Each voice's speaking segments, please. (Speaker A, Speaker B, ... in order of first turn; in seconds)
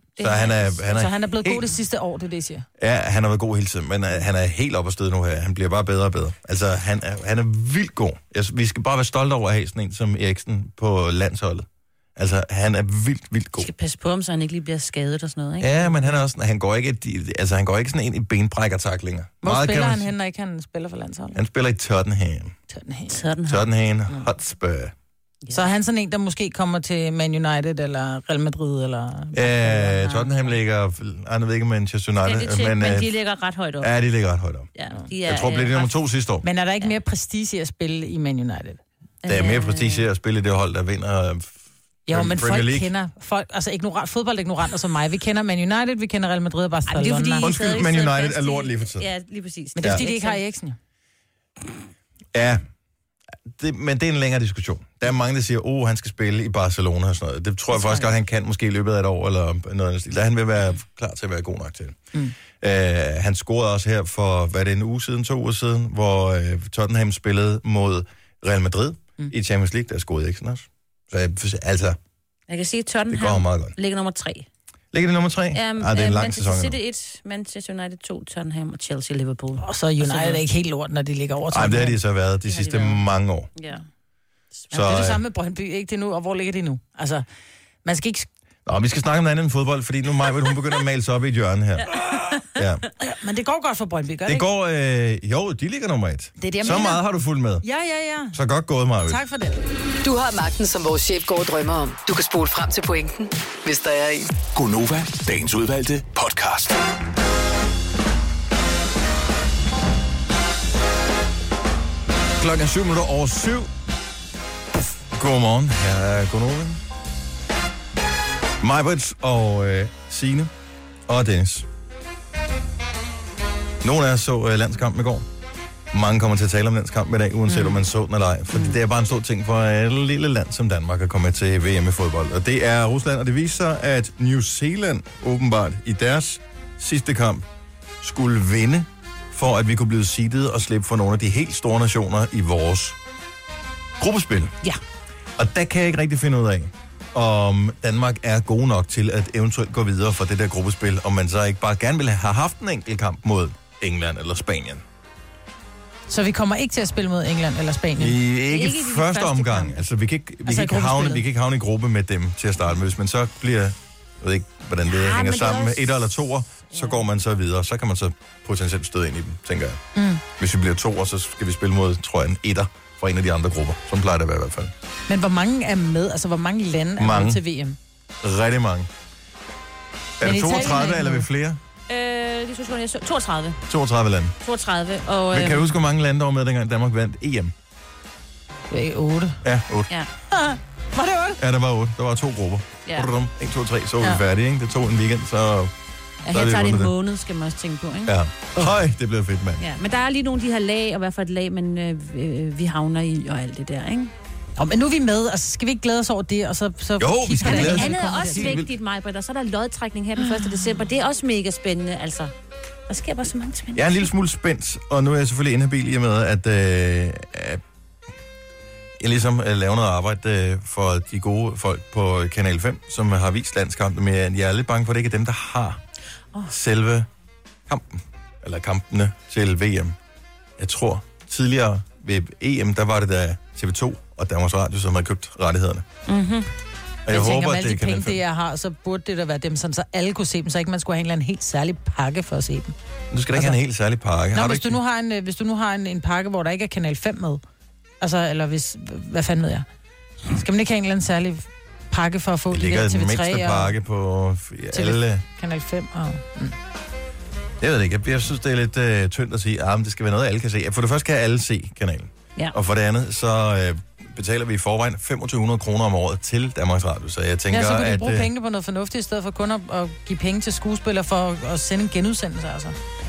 Speaker A: 0.2-0.8, 13.6-16.1, 23.1-23.7, 32.2-33.9, 34.8-35.9, 39.2-40.1, 46.9-50.4, 72.5-74.5, 75.5-80.4, 82.5-83.0, 83.6-83.8, 92.0-92.5, 127.5-127.8, 158.5-159.8, 164.9-166.0, 166.7-167.0, 181.9-183.6, 184.4-185.7, 192.9-193.1, 196.2-198.1, 199.6-204.1, 207.4-212.3, 212.9-214.1, 236.1-236.5
Speaker B: 0.2-1.7, 2.8-13.7, 15.6-20.1, 21.4-22.6, 23.5-24.9, 29.3-33.1, 33.8-34.7, 35.2-36.5, 39.3-41.5, 42.1-42.9, 47.4-49.1, 52.3-52.6, 53.5-62.0, 62.5-72.0, 73.1-73.7, 74.9-76.8, 81.5-83.5, 84.7-85.2, 88.7-92.8, 94.3-97.7, 98.3-99.2, 112.4-113.7, 115.1-116.8, 118.6-120.5, 121.1-121.7, 123.8-125.3, 125.9-137.4, 138.0-143.0, 144.0-144.6, 145.4-154.8, 158.0-169.8, 170.4-174.7, 177.0-177.4, 178.2-178.9, 180.2-181.6, 183.7-184.4, 185.3-187.5, 189.4-189.9, 191.4-195.7, 196.3-196.9, 198.1-199.7, 207.0-208.7, 213.8-217.6, 219.0-225.8, 226.5-227.1, 227.7-230.0, 230.6-235.9, 237.1-238.2, 243.1-244.8, 252.5-255.2, 257.6-268.3
Speaker C: 0.9-2.7, 19.4-21.4, 22.7-23.2, 25.5-30.3, 36.4-38.8, 42.1-47.5, 49.8-50.8, 79.6-82.0, 84.7-87.2, 87.8-88.3, 93.0-94.5, 96.4-97.0, 97.6-98.4, 99.1-99.6, 156.1-158.2, 160.5-161.2, 169.9-170.2, 175.1-177.8, 180.2-181.2, 188.7-189.4, 190.3-191.4, 204.6-208.6, 237.1-242.7, 244.3-247.4, 248.0-249.7, 250.3-253.8, 254.7-256.6, 267.5-272.8
Speaker D: 100.0-104.3
Speaker E: 104.5-106.8